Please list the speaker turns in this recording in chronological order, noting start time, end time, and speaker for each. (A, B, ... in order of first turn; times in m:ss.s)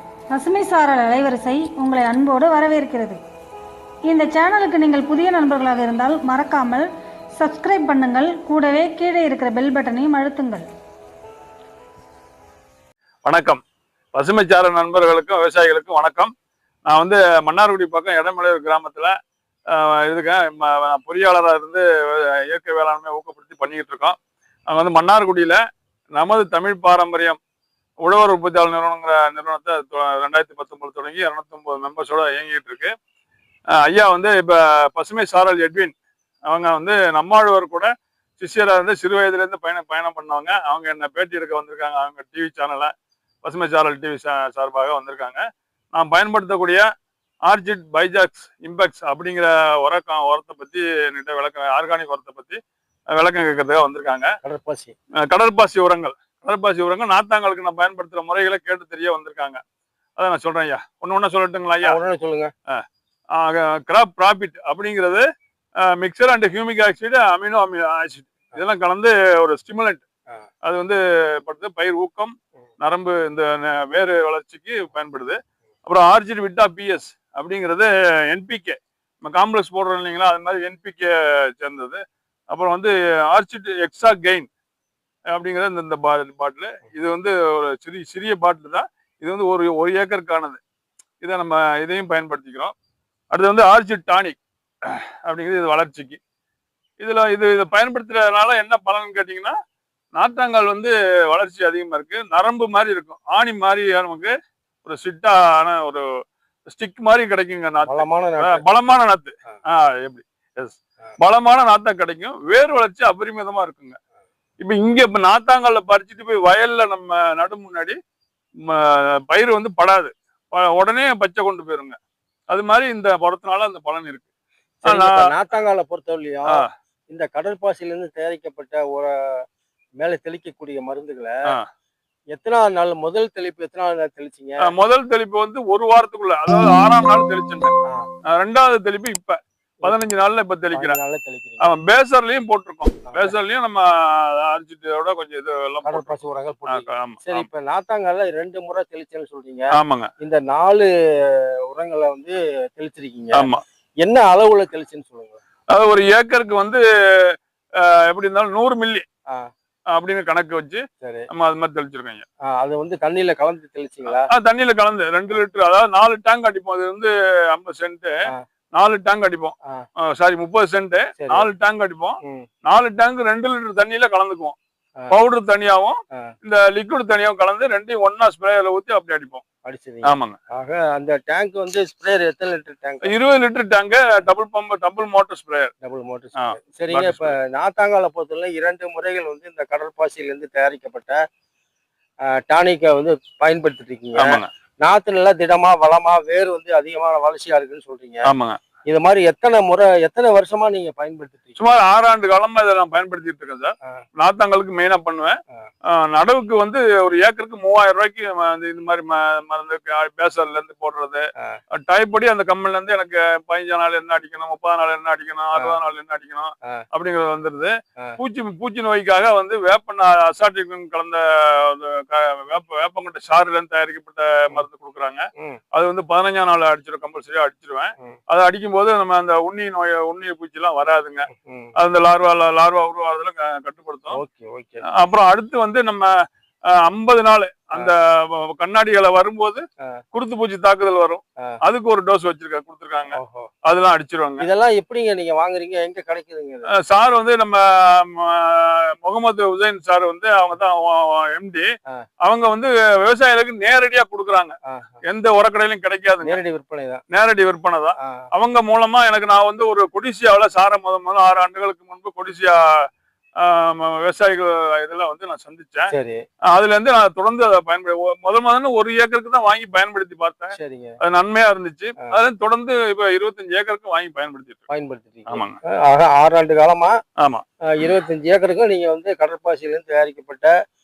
0:00.3-0:03.2 A
0:04.1-0:10.6 A
0:13.2-0:13.6 B
0:14.1-0:16.3 B
0:16.8-0:19.1 B
0:19.7-0:24.2 B
0:24.7-0:25.6 B
0:26.1-0:27.4 B
0:28.0-0:32.9 B
0:33.8-0:35.9 B
0:36.4-0:42.9 B
0:43.4-0:45.4 B
0:45.9-0:46.8 B
0:47.4-0:52.6 B
0:53.1-0:54.3 B
0:54.4-0:54.9 C
0:55.2-0:59.6 B
1:00.2-1:02.0 B
1:01.8-1:02.5 C
1:02.7-1:05.2 B
1:05.8-1:10.0 B
1:10.6-1:24.5 B
1:25.3-1:30.6 B
1:31.2-1:32.7 B
1:33.3-1:36.2 B
1:37.0-1:39.5 B
1:40.1-1:44.3 B
1:44.8-1:46.0 B
1:46.7-1:54.0 B
1:47.8-1:48.6 C
1:54.6-1:58.0 B
1:58.6-2:02.0 B
2:02.5-2:04.3 B
2:04.8-2:09.4 C
2:04.8-2:05.3 B
2:10.0-2:11.3 C
2:12.3-2:14.6 C
2:14.6-2:17.7 B
2:18.3-2:21.0 B
2:20.7-2:21.7 C
2:21.6-2:26.1 B
2:25.8-2:35.4 C
2:26.7-2:27.5 B
2:29.7-2:30.1 B
2:33.3-2:33.6 B
2:35.7-2:39.0 B
2:39.9-2:42.2 B
2:41.0-2:41.3 C
2:42.5-2:44.3 C
2:44.1-2:48.1 B
2:48.7-2:49.5 B
2:50.0-2:54.6 B
2:51.2-2:51.5 C
2:55.1-2:59.4 B
2:59.6-3:03.1 C
3:00.0-3:00.4 B
3:03.0-3:05.7 B
3:05.8-3:11.2 C
3:06.4-3:07.3 B
3:12.3-3:18.3 C
3:14.2-3:14.5 B
3:18.2-3:18.6 B
3:18.8-3:21.5 C
3:21.6-3:25.4 B
3:25.9-3:54.2 B
3:51.3-3:51.7 C
3:54.1-3:54.8 C
3:54.9-3:56.1 B
3:56.7-3:59.6 B
4:00.1-4:04.4 B
4:03.1-4:03.5 C
4:04.4-4:06.7 C
4:06.7-4:11.7 B
4:12.2-4:16.4 B
4:14.7-4:15.0 C
4:16.2-4:17.0 C
4:17.1-4:22.6 B
4:23.4-4:25.9 B
4:25.9-4:26.2 C
4:26.5-4:34.7 B
4:30.5-4:31.0 C
4:34.7-4:36.9 C
4:35.3-4:35.6 B
4:37.2-4:38.0 B
4:37.7-4:40.5 C